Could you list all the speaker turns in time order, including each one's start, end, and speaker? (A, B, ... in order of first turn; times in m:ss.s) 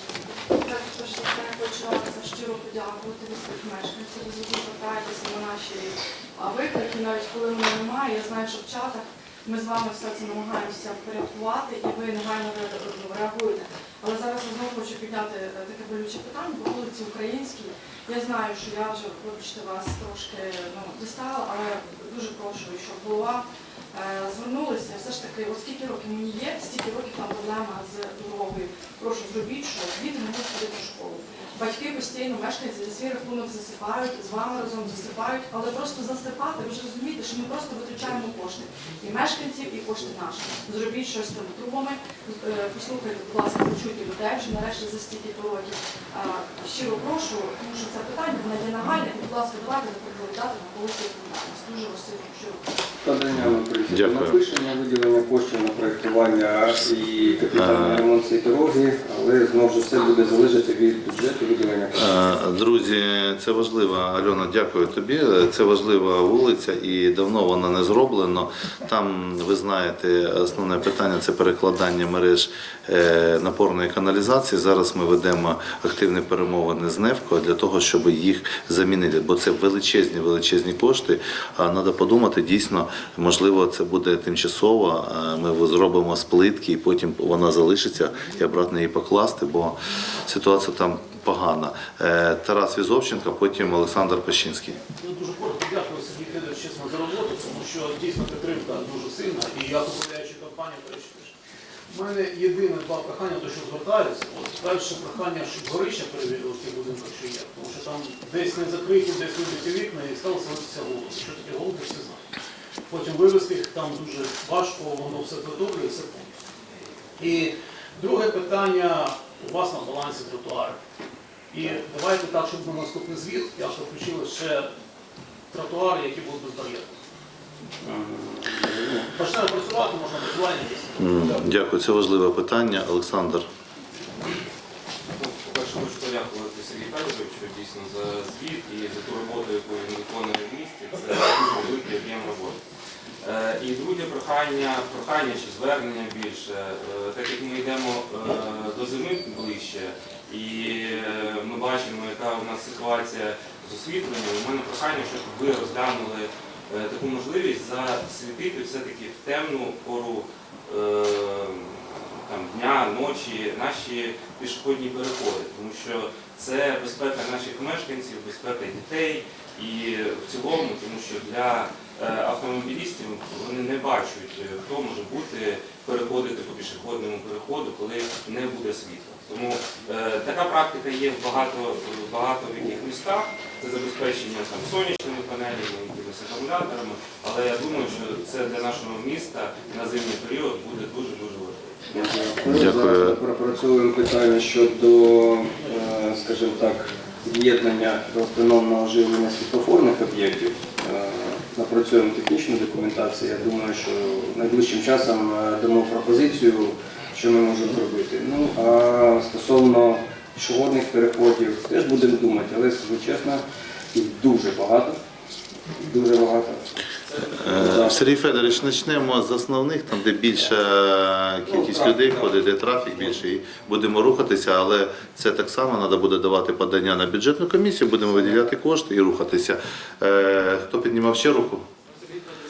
0:00.5-0:52.6 A
0:53.0-1:02.4 B
0:53.4-0:54.4 C
0:57.5-0:58.0 C
1:01.9-1:34.8 C
1:35.0-1:41.3 D
1:41.9-1:52.2 D
1:52.9-1:56.3 D
1:57.2-2:00.8 D
2:01.5-2:04.7 D
2:05.5-2:06.9 D
2:07.8-2:09.1 B
2:09.1-2:11.5 D
2:11.0-2:13.5 C
2:15.1-2:22.6 E
2:23.2-3:11.8 E
3:11.9-3:35.0 B
3:12.5-3:13.2 C
3:35.8-3:36.7 B
3:37.4-3:51.6 C
3:37.4-3:38.6 B
3:41.4-3:42.4 B